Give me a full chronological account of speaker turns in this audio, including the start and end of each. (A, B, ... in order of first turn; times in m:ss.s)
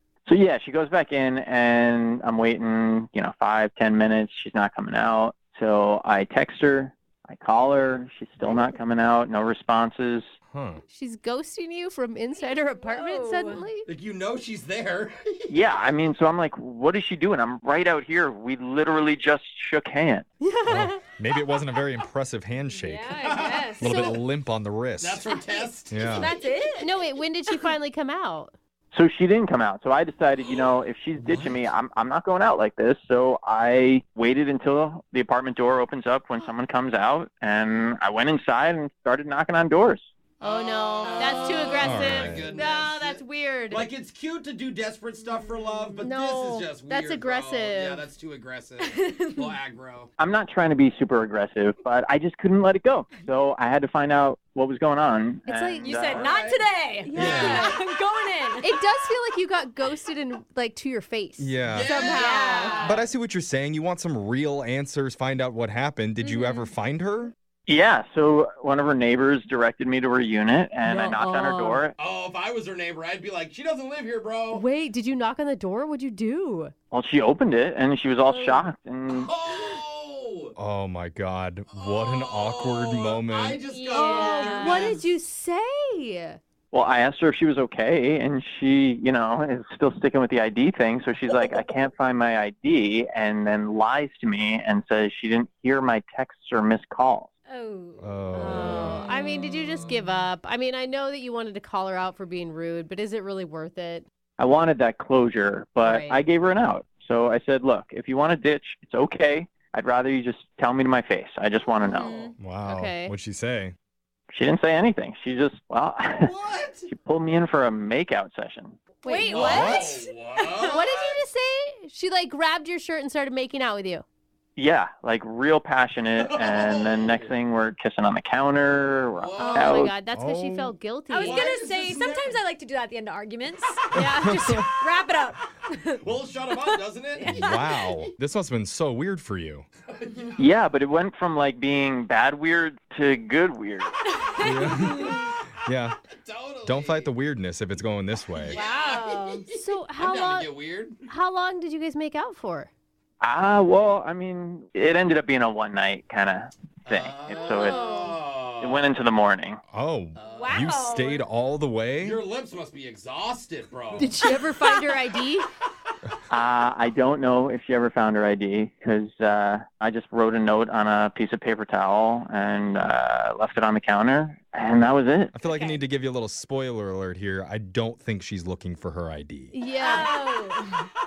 0:00.3-0:10.3 A
0:10.5-0:10.8 B
0:10.9-0:13.9 C
0:12.8-0:13.6 D
0:13.9-0:15.9 E
0:15.5-0:20.3 A
0:20.4-0:21.0 C
0:20.7-0:23.2 B
0:22.7-0:24.0 D
0:23.2-0:24.2 E
0:23.8-0:25.3 B
0:23.8-0:24.2 C
0:25.0-0:26.0 E
0:25.9-0:26.3 B
0:26.1-0:27.1 D
0:26.8-0:28.5 C
0:28.9-0:40.1 A
0:31.2-0:31.5 B
0:40.4-0:50.1 E
0:40.4-0:43.9 C
0:41.0-0:41.4 D
0:41.8-0:42.5 B
0:45.4-0:46.0 D
0:46.0-0:48.1 C
0:48.8-0:49.6 D
0:50.2-0:56.2 A
0:55.5-0:56.0 C
0:55.8-0:58.8 D
0:56.0-0:56.7 E
0:57.0-0:57.8 C
0:57.2-0:57.7 B
0:57.2-0:57.7 E
0:58.6-1:02.9 C
1:01.4-1:02.0 B
1:01.7-1:03.0 E
1:02.1-1:03.1 D
1:02.8-1:07.3 B
1:06.2-1:06.7 D
1:07.7-1:12.0 A
1:10.8-1:11.9 C
1:12.0-1:14.6 E
1:14.5-1:16.7 C
1:16.9-1:19.3 A
1:18.3-1:18.7 C
1:19.1-1:20.6 E
1:20.6-1:23.6 B
1:21.7-1:25.1 E
1:23.6-1:24.9 D
1:23.9-1:26.4 C
1:26.7-1:37.3 A
1:37.5-1:39.6 D
1:38.0-1:39.0 B
1:38.4-1:44.0 C
1:44.4-1:52.3 A
1:45.8-1:46.2 C
1:51.8-1:52.4 D
1:52.4-1:53.7 B
1:52.6-1:53.2 C
1:54.3-1:56.3 A
1:56.2-1:56.9 E
1:56.9-1:58.8 A
1:59.0-2:00.1 C
1:59.0-2:00.9 D
1:59.2-2:01.2 E
1:59.4-1:59.9 B
2:00.7-2:04.0 C
2:04.6-2:09.9 A
2:06.2-2:07.4 E
2:09.1-2:09.9 E
2:09.4-2:11.5 C
2:10.1-2:10.8 B
2:11.1-2:16.0 D
2:11.2-2:12.4 E
2:14.0-2:14.3 C
2:14.1-2:14.6 B
2:16.0-2:17.4 E
2:17.1-2:17.9 D
2:17.3-2:19.7 B
2:19.9-2:20.6 E
2:20.4-2:24.0 A
2:24.1-2:25.3 D
2:24.4-2:26.0 B
2:26.1-2:27.1 E
2:26.6-2:28.6 B
2:28.4-2:31.0 E
2:28.6-2:30.5 C
2:31.1-2:32.7 C
2:33.2-2:37.8 A
2:36.8-2:38.9 E
2:37.6-2:38.0 C
2:37.6-2:38.1 D
2:38.6-2:39.6 A
2:39.7-2:42.2 B
2:40.2-2:40.6 E
2:40.3-2:41.3 D
2:42.0-2:44.2 E
2:44.0-2:45.5 C
2:46.3-2:55.3 A
2:55.3-2:59.5 B
2:55.4-2:55.8 D
2:59.5-3:00.2 C
2:59.7-3:00.9 D